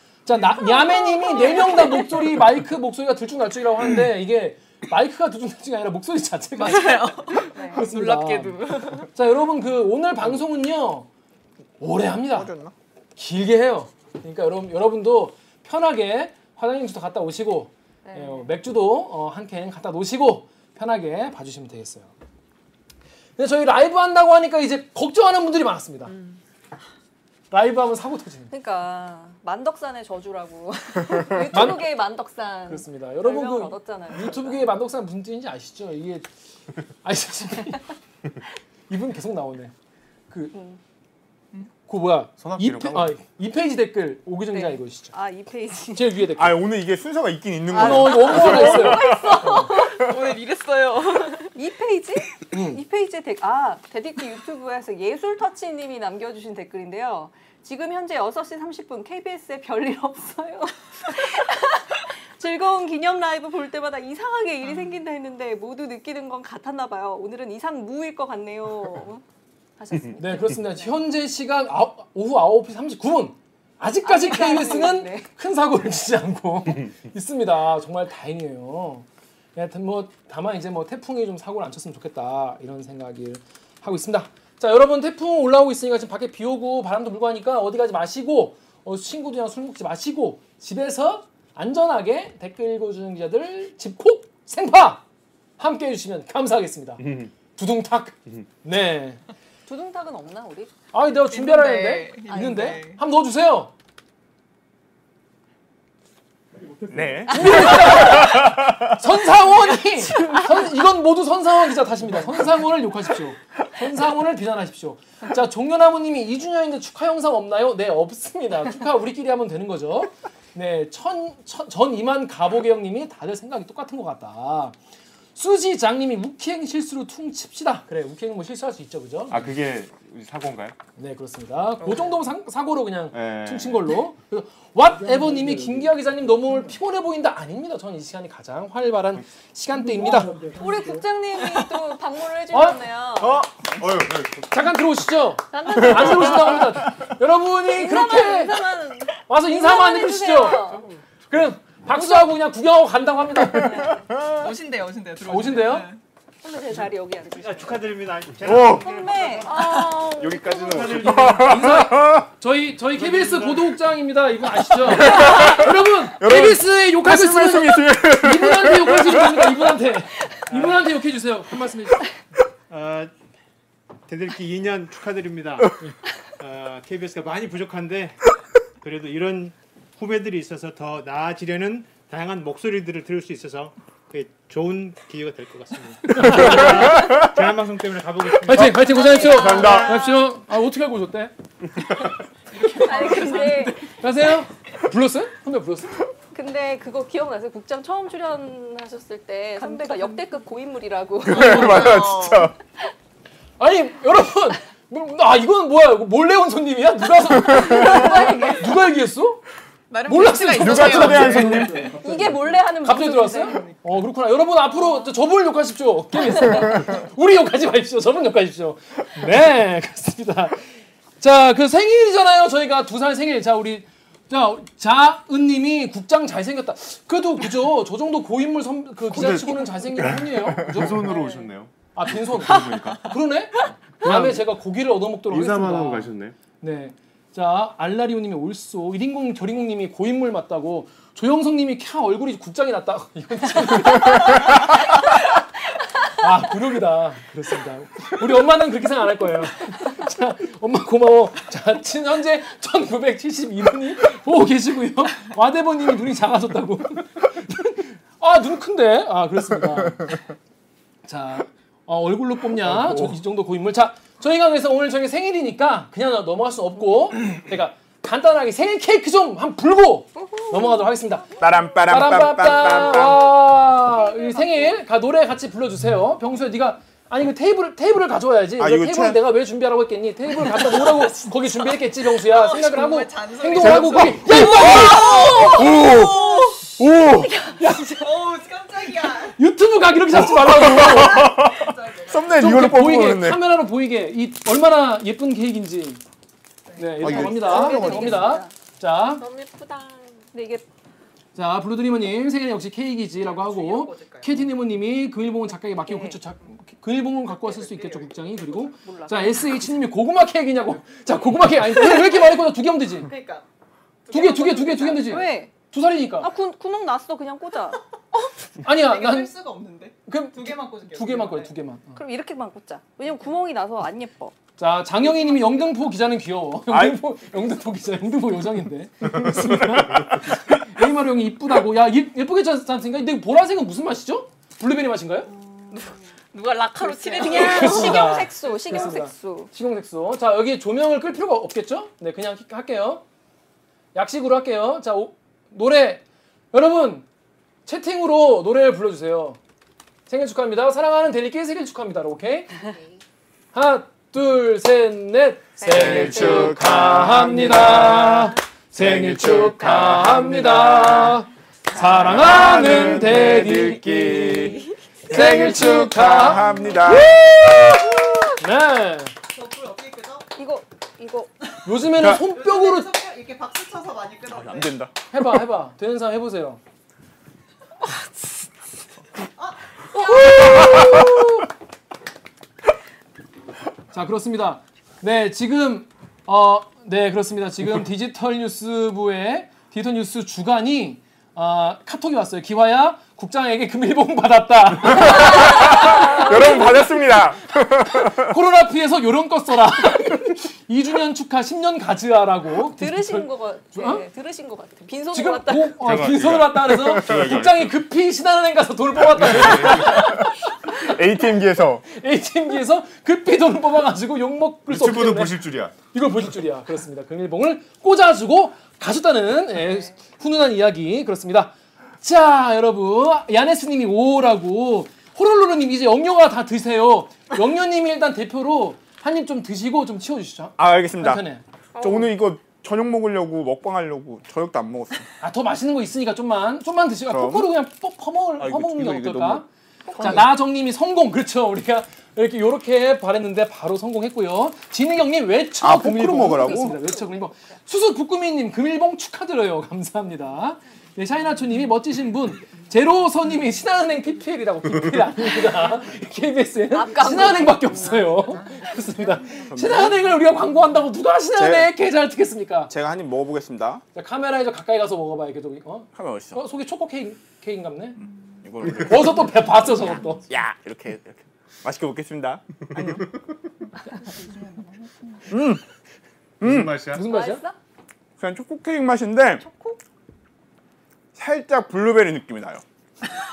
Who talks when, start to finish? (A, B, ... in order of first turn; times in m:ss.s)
0:00.2-0:11.1 A
0:00.3-0:02.3 B
0:06.6-0:09.1 C
0:07.5-0:07.8 B
0:11.8-0:12.5 A
0:12.3-0:12.7 D
0:13.2-0:22.1 A
0:18.0-0:18.5 B
0:23.4-0:26.1 A
0:27.5-0:28.5 A
0:28.5-0:34.7 B
0:31.5-0:31.9 A
0:32.7-0:36.2 A
0:37.0-0:37.8 A
0:38.9-0:39.7 A
0:40.3-0:40.6 A
0:40.5-0:40.8 B
0:41.9-0:45.1 A
0:42.4-0:43.2 E
0:44.5-0:46.1 B
0:45.9-0:46.6 A
0:46.4-0:49.4 D
0:47.7-0:49.7 A
0:47.7-0:50.0 B
0:49.6-0:51.5 C
0:51.5-1:09.2 B
0:52.5-0:52.8 A
1:09.8-1:11.0 B
1:10.2-1:35.0 A
1:14.0-1:15.2 B
1:35.6-1:39.2 A
1:37.0-1:37.3 E
1:39.7-1:40.7 B
1:40.9-1:43.7 A
1:41.3-1:43.0 C
1:42.3-1:42.8 B
1:46.9-1:48.6 D
1:47.3-2:04.8 A
2:05.4-2:09.5 A
2:09.3-2:10.8 E
2:11.0-2:20.5 A
2:11.8-2:12.1 C
2:13.1-2:13.9 E
2:20.5-2:23.4 B
2:22.5-2:22.8 A
2:23.8-2:24.5 E
2:24.5-2:28.6 A
2:25.5-2:26.8 B
2:27.7-2:30.8 B
2:29.3-2:30.7 A
2:31.3-2:33.9 A
2:31.9-2:32.3 B
2:33.5-2:34.0 B
2:34.2-2:36.0 C
2:35.2-2:35.8 A
2:36.4-2:37.9 B
2:36.7-2:41.6 F
2:38.4-2:38.9 D
2:38.7-2:41.1 B
2:40.2-2:42.2 D
2:41.1-2:52.1 A
2:42.9-2:43.7 F
2:45.0-2:45.6 D
2:46.2-2:49.5 D
2:50.5-2:50.8 F
2:52.7-2:53.1 F
2:54.1-2:55.8 F
2:56.4-2:58.2 F
2:58.8-3:09.0 F
3:06.1-3:07.3 A
3:08.4-3:11.3 A
3:08.6-3:10.0 D
3:08.8-3:09.9 B
3:09.1-3:10.1 C
3:12.5-3:13.7 C
3:12.6-3:13.9 B
3:13.3-3:16.0 A
3:16.3-3:22.1 B
3:19.6-3:20.2 C
3:21.2-3:22.5 D
3:21.3-3:21.9 A
3:21.4-3:22.5 C
3:23.6-3:29.4 A
3:27.4-3:28.7 B
3:29.9-3:31.8 C
3:30.0-3:32.0 A
3:30.6-3:31.9 D
3:31.3-3:31.6 F
3:32.0-3:33.6 B
3:32.8-3:40.6 A
3:33.4-3:33.8 C
3:41.2-3:51.2 A
3:49.0-3:53.1 E
3:51.1-3:51.4 B
3:51.9-4:04.7 A
3:54.0-3:54.4 E
3:55.3-3:56.4 E
4:06.2-4:20.2 A
4:21.0-4:31.3 A
4:22.7-4:23.1 D
4:31.4-4:33.4 D
4:31.9-4:45.4 A
4:34.1-4:34.7 C
4:38.6-4:39.2 D
4:42.2-4:46.6 C
4:43.6-4:46.2 D
4:44.7-4:46.2 B
4:46.8-4:47.3 D
4:47.2-4:47.9 B
4:47.6-4:47.8 A
4:47.8-4:49.4 C
4:49.2-4:51.4 A
4:50.4-4:53.4 D
4:50.6-4:52.4 C
4:52.4-4:56.0 A
4:56.7-4:57.2 C
4:56.8-4:59.2 A
4:57.0-4:58.1 D
4:57.1-4:58.5 B
4:59.2-5:00.2 G
5:00.3-5:00.6 B
5:01.4-5:13.1 A
5:03.2-5:04.5 C
5:05.8-5:06.2 B
5:07.3-5:08.4 C
5:08.8-5:09.7 B
5:13.0-5:13.4 C
5:14.0-5:15.2 C
5:14.1-5:16.3 A
5:15.0-5:15.5 B
5:16.2-5:17.8 B
5:18.6-5:19.3 A
5:18.6-5:21.5 C
5:20.0-5:22.0 A
5:21.9-5:24.3 B
5:24.6-5:35.3 A
5:26.7-5:27.0 D
5:35.7-5:38.9 C
5:36.8-5:38.0 G
5:37.1-5:39.5 B
5:37.2-5:43.0 A
5:43.9-5:47.0 A
5:47.6-5:49.4 A
5:50.1-5:52.5 A
5:53.5-6:04.6 A
5:55.6-5:56.5 B
5:55.7-6:01.2 D
6:01.8-6:07.3 D
6:05.1-6:09.1 A
6:09.3-6:10.3 C
6:10.4-6:11.3 B
6:11.6-6:12.9 A
6:12.0-6:14.8 C
6:14.4-6:14.9 D
6:15.1-6:16.6 A
6:19.4-6:20.6 C
6:20.0-6:21.4 A
6:23.9-6:36.7 A
6:34.9-6:38.3 D
6:35.4-6:36.1 B
6:38.1-6:44.0 A
6:42.8-6:45.7 B
6:45.1-6:50.3 A
6:45.8-6:47.8 E
6:47.0-6:47.4 D
6:49.2-6:50.0 E
6:50.7-6:51.8 D
6:51.9-7:11.4 A
6:54.7-6:55.8 E
7:10.6-7:11.2 D
7:11.8-7:15.1 D
7:15.2-7:19.4 A
7:17.1-7:17.5 D
7:18.4-7:19.4 D
7:19.9-7:20.2 D
7:20.0-7:42.7 A
7:25.6-7:26.8 D
7:36.7-7:38.2 B
7:39.4-7:40.1 D
7:41.4-7:41.7 D
7:42.7-7:43.8 D
7:43.9-7:48.0 A
7:45.9-7:46.4 D
7:48.4-7:49.7 D
7:48.8-7:50.2 A
7:50.3-7:53.0 D
7:55.3-7:55.6 D
7:56.4-7:57.0 E
7:56.4-7:56.8 D
7:56.9-7:57.4 A
7:57.1-7:57.5 B
7:58.2-7:59.4 D
8:01.1-8:02.6 D